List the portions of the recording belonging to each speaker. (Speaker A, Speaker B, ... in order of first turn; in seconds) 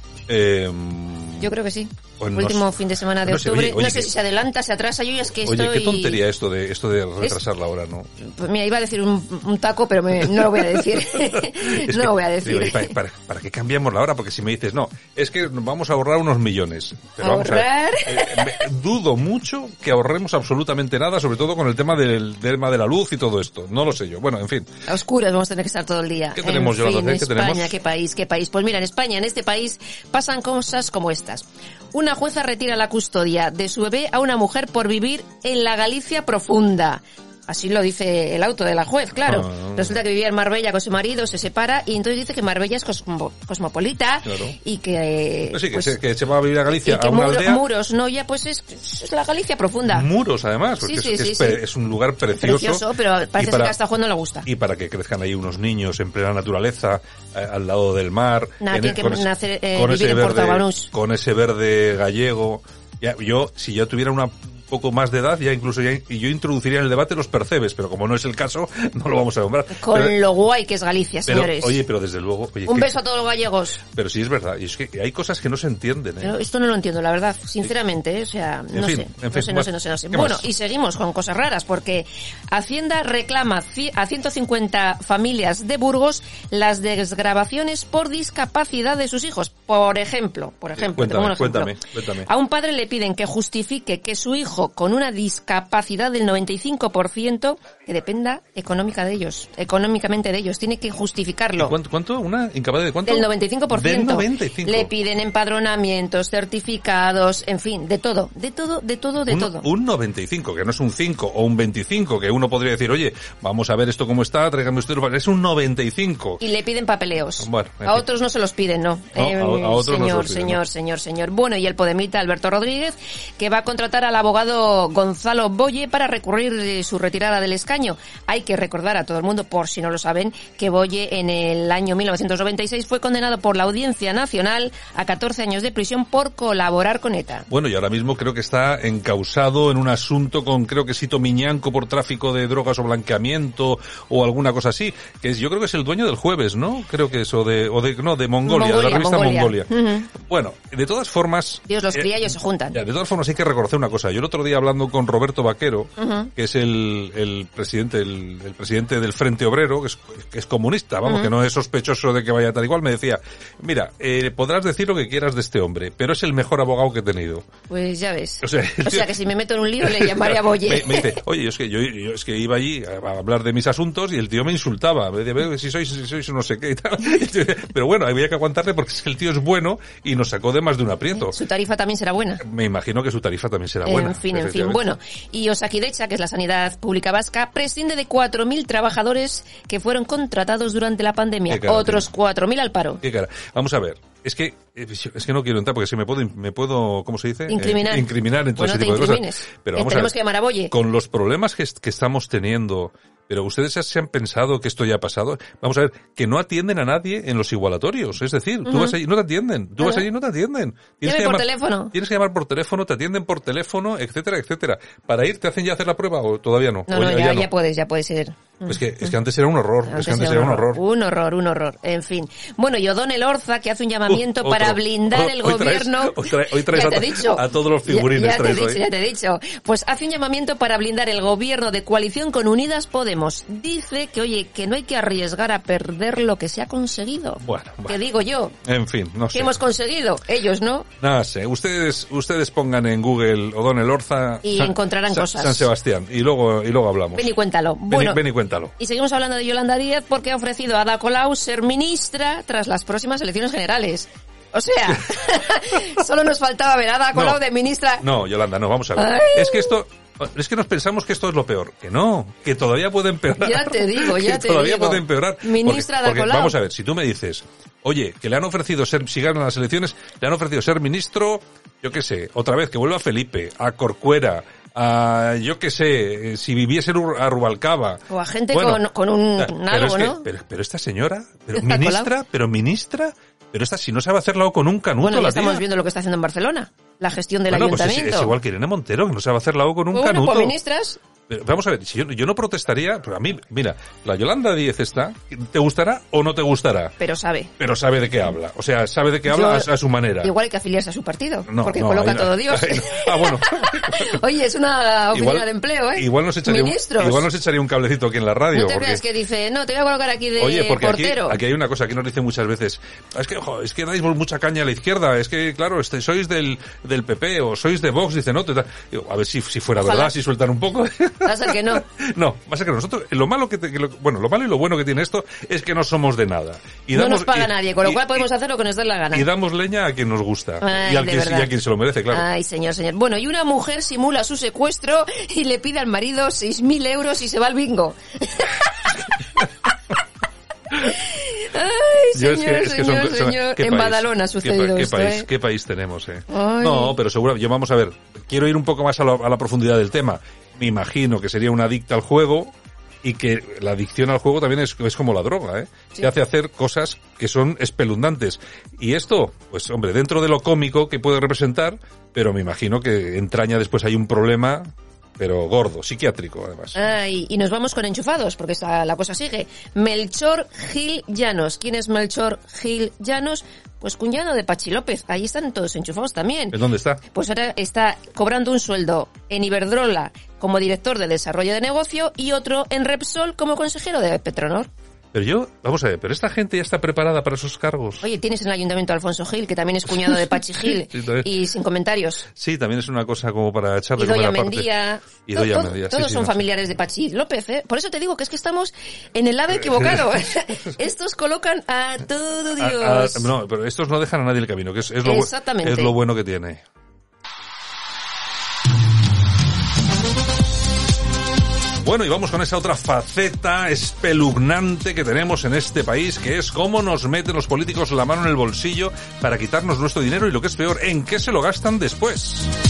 Speaker A: 0.3-1.5, 2.2-4.1, 5.4-8.1, 11.7-24.7, 26.4-27.7, 39.2-39.9, 44.3-44.5, 45.5-47.6, 49.9-52.9, 53.4-53.7, 54.5-70.2, 71.3-73.0, 73.9-76.3, 78.7-80.5, 90.8-92.3, 101.6-104.9, 109.3-116.4, 117.4-118.0, 119.2-120.6, 137.5-152.1, 152.7-167.5, 168.4-169.1, 169.8-181.3, 182.4-184.8, 191.5-192.1, 193.0-200.2, 200.7-217.5, 218.7-220.8, 224.1-228.8, 237.4-238.0, 238.7-239.5, 241.0-247.2, 247.9-248.7, 258.0-278.8, 279.4-285.6, 287.5-290.6, 291.3-296.9, 297.6-300.3, 301.5-304.2, 305.1-309.0, 310.4-328.2, 329.1-332.2, 342.1-352.5, 353.0-366.8, 376.5-377.0, 385.1-388.1, 390.6-391.2, 392.4-396.4, 402.6-406.6, 411.8-422.5
Speaker B: 1.4-6.2, 8.2-12.9, 17.2-18.5, 24.9-46.0, 46.7-50.1, 50.8-51.6, 52.3-54.5, 58.6-60.9, 69.7-71.8, 72.7-73.8, 76.2-101.7, 103.0-109.7, 116.4-137.5, 148.4-150.1, 151.7-152.8, 156.0-156.3, 167.7-171.2, 181.2-182.4, 183.8-193.0, 197.5-200.7, 208.7-209.0, 211.0-211.9, 216.9-219.1, 219.9-238.5, 239.3-240.9, 244.4-245.7, 247.1-248.2, 248.8-258.1, 259.0-259.8, 263.4-266.6, 278.1-280.2, 281.6-282.1, 285.0-288.4, 289.9-291.0, 297.0-297.5, 299.3-307.3, 308.5-311.4, 319.8-320.1, 321.2-321.8, 326.9-329.3, 330.6-331.5, 332.1-338.7, 340.9-345.3, 346.3-347.0, 366.8-376.6, 377.1-384.7, 388.0-392.3, 394.0-403.3, 405.0-405.9